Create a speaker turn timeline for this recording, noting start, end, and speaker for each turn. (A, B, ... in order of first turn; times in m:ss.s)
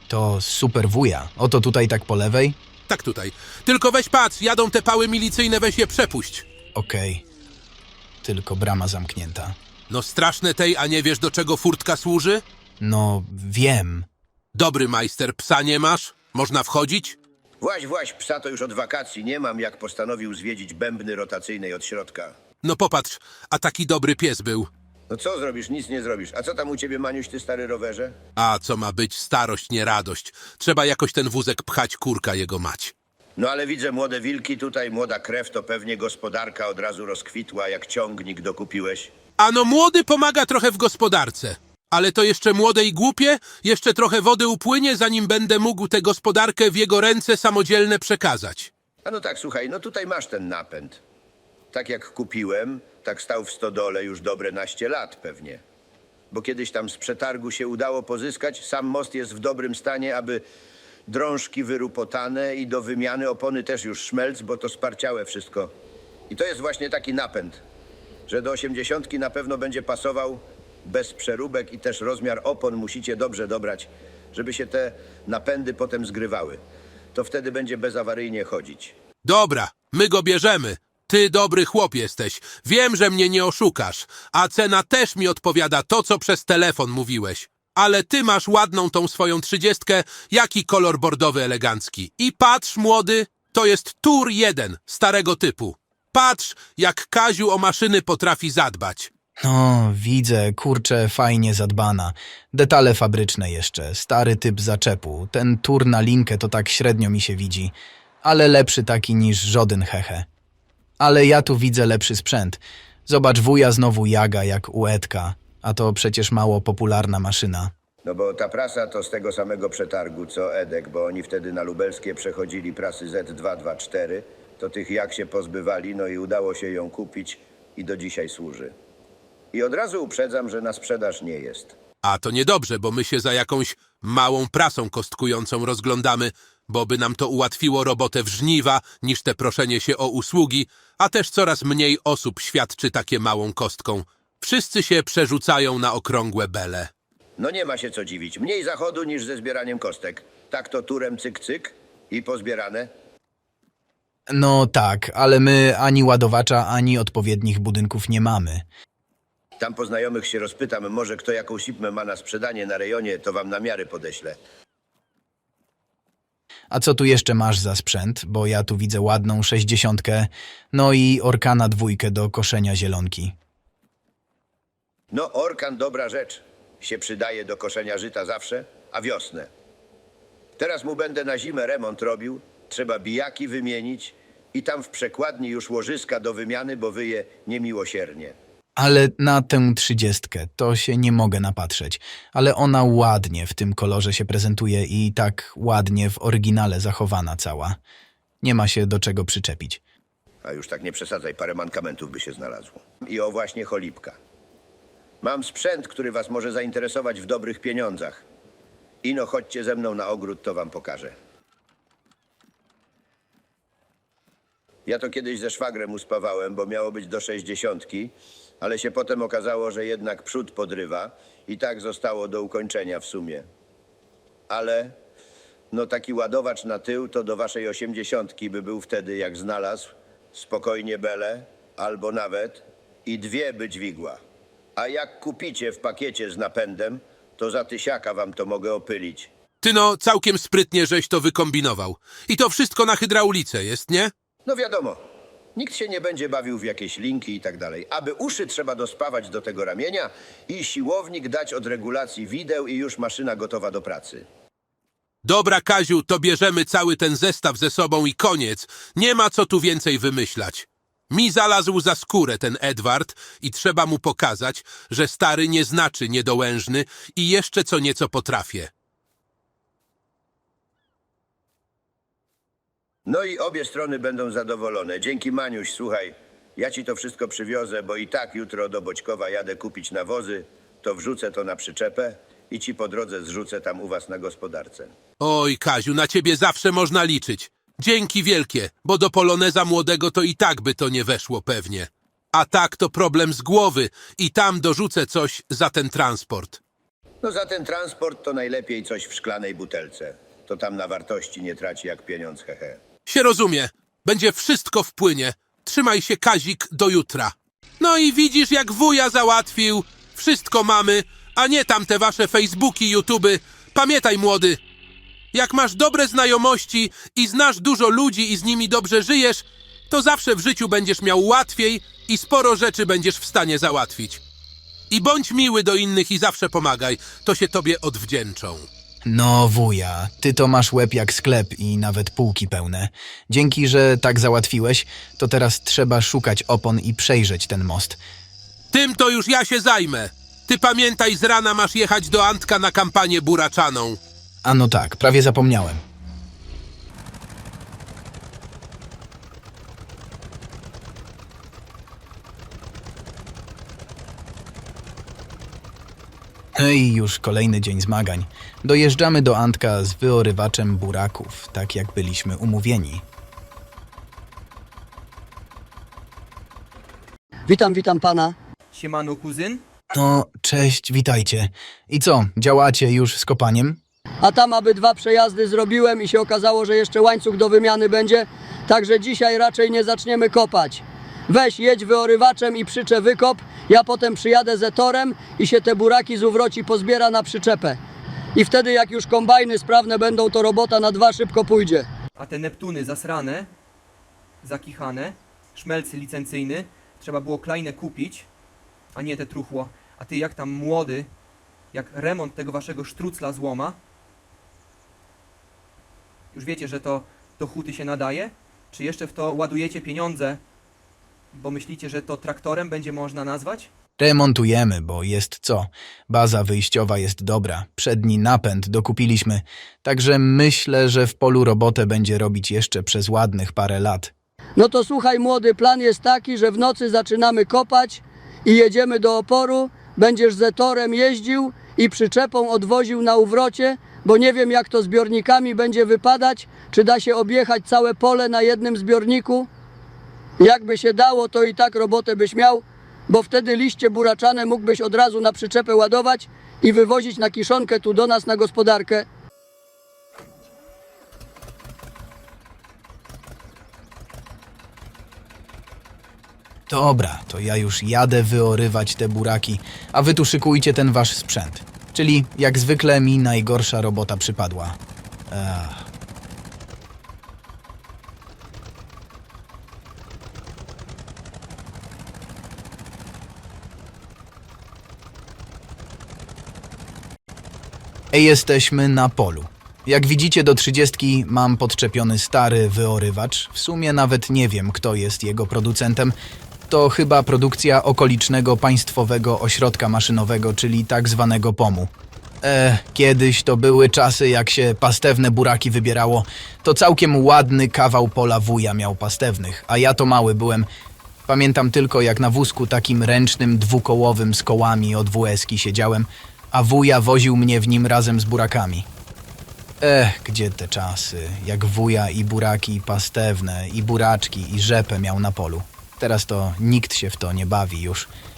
0:00.1-0:02.6 A
0:02.9-0:06.5 B
0:06.8-0:07.2 A
0:08.2-0:09.6 A
0:09.9-0:12.4 B
0:12.8-0:14.1 A
0:14.5-0:17.2 B
0:17.6-0:22.3 C
0:22.6-0:24.7 B
0:25.1-0:28.2 C
0:28.4-0:32.9 B
0:33.4-0:39.1 C
0:39.4-0:48.7 B
0:49.0-0:51.0 C
0:51.7-0:55.6 C
0:56.3-1:00.4 C
1:01.1-1:05.7 C
1:06.3-1:07.6 C
1:08.3-1:16.6 C
1:17.1-1:18.9 C
1:19.2-1:39.1 B
1:39.4-1:50.3 A
1:51.0-1:57.7 A
1:58.0-2:08.7 C
2:09.5-2:11.8 C
2:12.0-2:26.9 B
2:27.4-2:32.9 C
2:34.3-2:38.6 A
2:39.6-2:44.4 C
2:46.7-2:53.4 A
2:55.1-2:59.5 C
3:00.6-3:08.4 C
3:08.8-3:17.8 A
3:18.4-3:19.8 A
3:20.4-3:24.2 C
3:25.2-3:28.2 C
3:29.0-3:31.1 C
3:34.9-3:43.4 C
3:44.5-3:44.9 C
3:45.7-3:54.2 C
3:54.8-3:59.3 C
3:59.6-4:04.1 B
4:04.5-4:05.0 C
4:05.6-4:14.2 C
4:15.2-4:28.7 B
4:33.1-4:44.9 C
4:45.2-4:56.6 B
4:57.2-5:02.8 C
5:03.1-5:14.6 B
5:15.3-5:24.2 B
5:24.9-5:28.7 B
5:29.1-5:38.0 A
5:38.7-5:44.0 B
5:44.4-5:45.8 A
5:56.6-6:03.0 A
6:07.5-6:08.4 D
6:08.7-6:09.6 E
6:09.9-6:13.8 A
6:14.2-6:27.8 D
6:28.4-6:31.9 D
6:32.2-6:33.5 E
6:34.4-6:38.3 E
6:39.0-6:41.1 E
6:41.7-6:43.8 E
6:46.3-6:50.4 E
6:51.3-6:53.7 E
6:54.0-7:04.1 A
7:04.6-7:19.5 D
7:20.4-7:29.1 D
7:36.7-7:44.8 A
7:45.3-7:45.8 A
7:58.1-8:06.1 A
8:06.7-8:11.9 A
8:12.4-8:20.7 A
8:21.3-8:28.9 A
8:29.8-8:38.1 A